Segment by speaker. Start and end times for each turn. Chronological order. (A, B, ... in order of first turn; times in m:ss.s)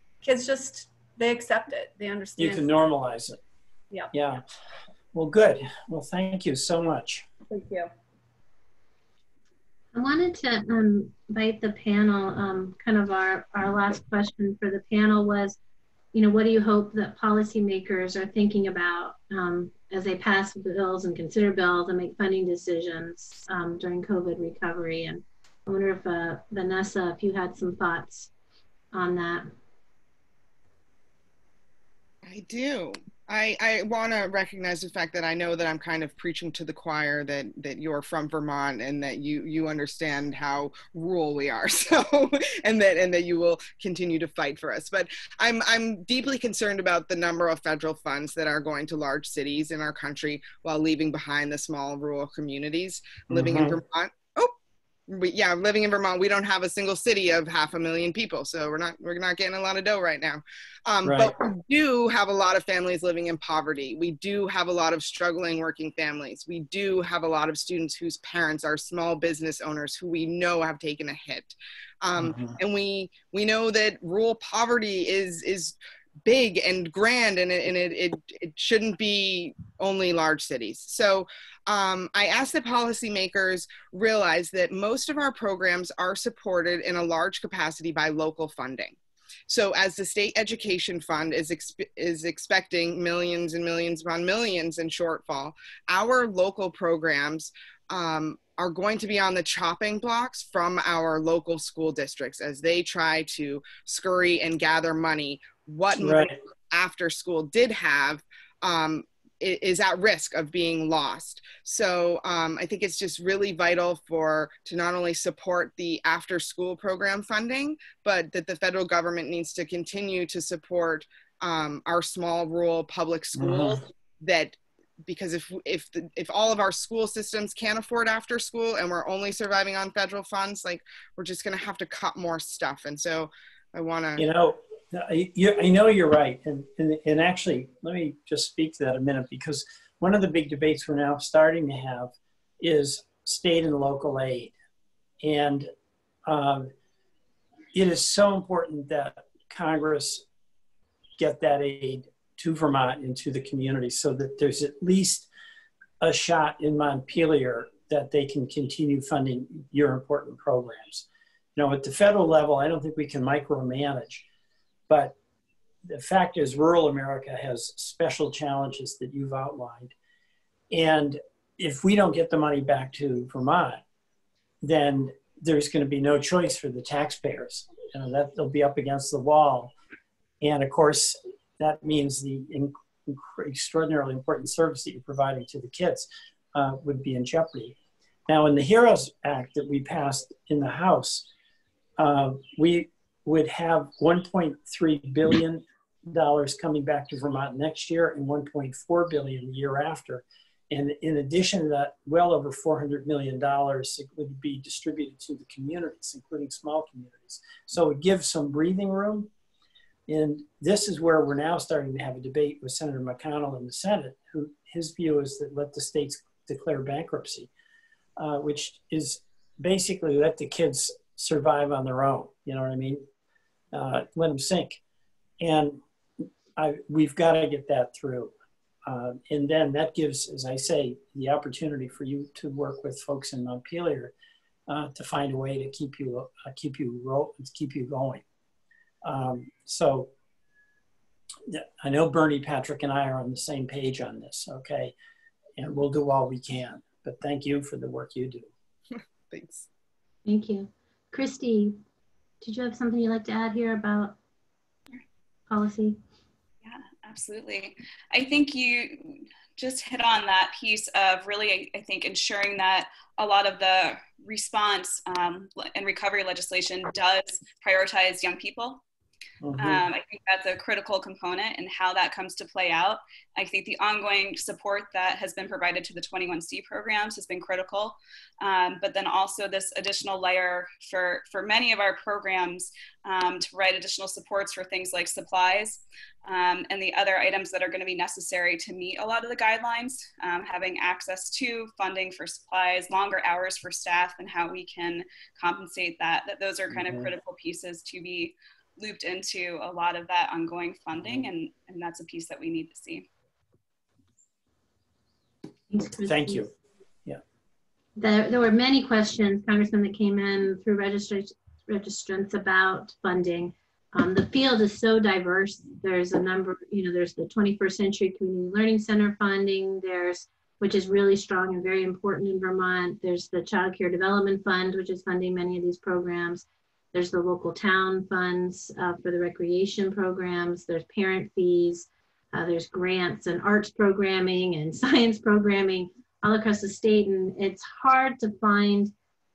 0:00.2-0:02.8 A
0:02.4-0:03.4 B
0:04.1-0:04.4 B
0:05.1-0:07.2 B
0:07.5-0:07.8 A
0:09.9-0:15.6 C
0:16.1-0:28.3 C
0:28.9-0:29.5 C
0:32.2-0:54.5 D
0:53.3-0:53.8 B
0:55.1-1:29.0 D
1:01.0-1:01.3 B
1:12.2-1:12.6 B
1:29.5-2:14.2 D
1:45.9-1:46.4 B
2:03.4-2:03.8 B
2:14.2-2:24.5 B
2:25.2-2:25.7 B
2:26.2-2:26.7 B
2:27.7-2:30.2 B
2:31.2-2:35.3 B
2:36.0-2:44.2 B
2:44.9-2:45.2 B
2:45.8-2:49.9 B
2:50.7-2:53.8 B
2:54.6-2:59.7 B
3:00.4-3:07.8 B
3:08.3-3:11.3 B
3:12.0-3:29.3 B
3:30.1-3:37.5 B
3:38.2-3:43.1 B
3:43.7-3:44.8 B
3:45.4-3:45.8 B
3:46.6-3:48.3 B
3:48.8-3:54.1 B
3:54.7-3:58.2 B
3:59.0-4:00.1 B
4:01.5-4:04.9 B
4:05.6-4:08.5 B
4:09.3-4:09.7 D
4:10.2-4:11.8 C
4:12.4-4:14.2 C
4:15.5-4:16.0 C
4:16.6-4:28.8 E
4:29.4-4:29.8 B
4:29.6-5:03.1 E
4:56.7-4:57.1 B
5:05.7-5:06.5 C
5:06.0-5:06.5 B
5:08.0-5:38.9 C